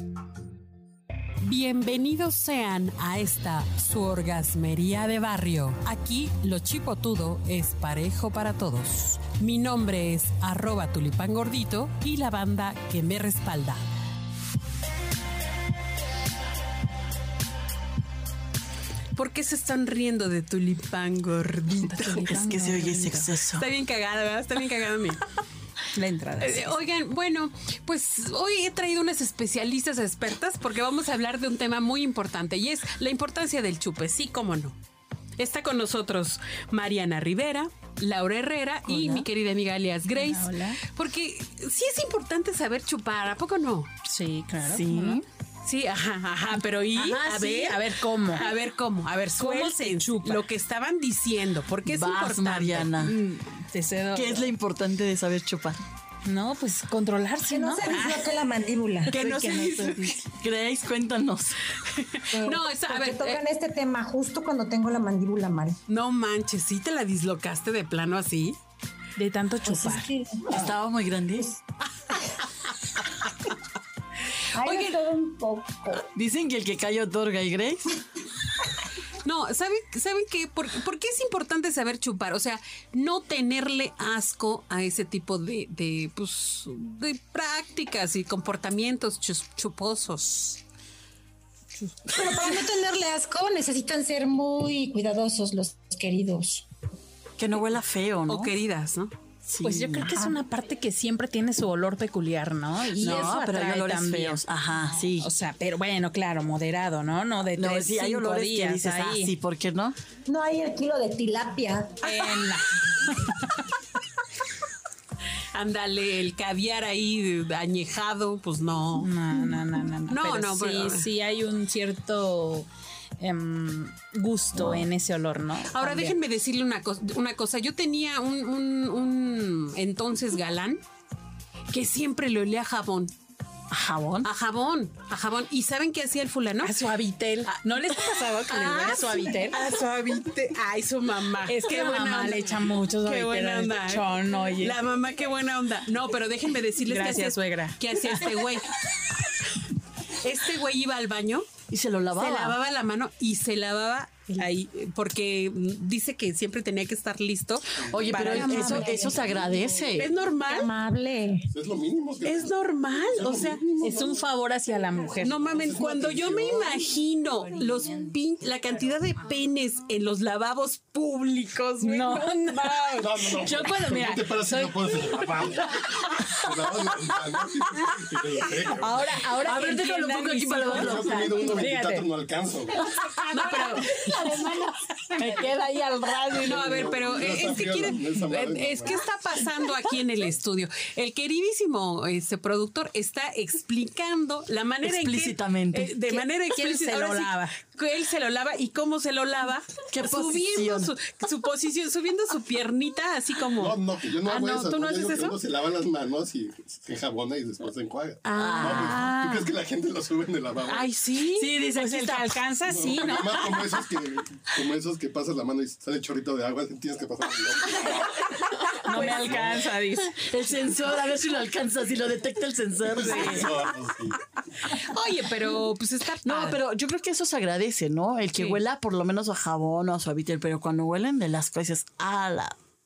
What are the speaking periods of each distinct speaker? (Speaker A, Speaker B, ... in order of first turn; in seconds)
Speaker A: 1.4-14.0, 19.1-22.2, 23.4-25.2, 26.4-34.8, 35.4-43.9, 45.6-53.0, 59.1-60.2, 61.9-63.4, 65.9-68.6, 74.6-75.0, 79.2-90.6, 98.3-99.1, 115.5-121.1, 125.7-130.8, 131.7-133.1, 134.2-136.8, 137.5-148.8, 150.1-151.5, 152.1-158.8, 159.9-160.7, 162.2-163.8, 165.2-173.0, 183.3-184.0, 186.5-205.4, 208.2-209.5, 210.7-211.5, 218.6-219.2, 223.0-223.5, 224.6-226.6, 228.3-228.6
Speaker B: 21.9-23.3, 25.9-26.8, 38.9-39.3, 40.1-40.8, 44.0-45.2, 47.0-48.5, 49.4-50.4, 53.0-54.5, 56.2-58.3, 69.2-70.1, 99.6-104.4, 105.2-109.3, 112.0-113.4, 119.0-122.7, 123.2-126.2, 136.6-139.6, 141.5-144.8, 146.8-148.3, 163.8-165.4, 171.8-175.6, 178.8-182.1, 182.9-186.9, 196.0-197.3, 211.7-213.7, 218.8-220.2
Speaker C: 22.1-23.6, 44.7-45.2, 51.9-53.2, 54.1-55.8, 59.1-61.6, 70.5-71.5, 76.1-77.9, 97.4-98.5, 99.5-100.1, 103.0-105.3, 107.5-110.0, 133.7-134.3, 151.7-152.6, 157.9-160.1, 179.4-181.6, 194.8-195.9, 199.9-200.9, 208.3-208.9, 211.3-212.3, 220.2-223.6, 226.2-232.6
Speaker D: 57.4-59.1, 62.3-65.8, 69.6-70.7, 74.5-76.1, 92.1-96.7, 110.2-112.1, 158.2-159.4, 160.5-161.5
Speaker E: 161.5-162.6, 163.1-164.2, 165.4-166.8, 172.9-179.2, 180.7-182.8, 186.4-189.0, 203.6-210.9, 212.7-218.2, 218.9-219.7, 222.8-224.2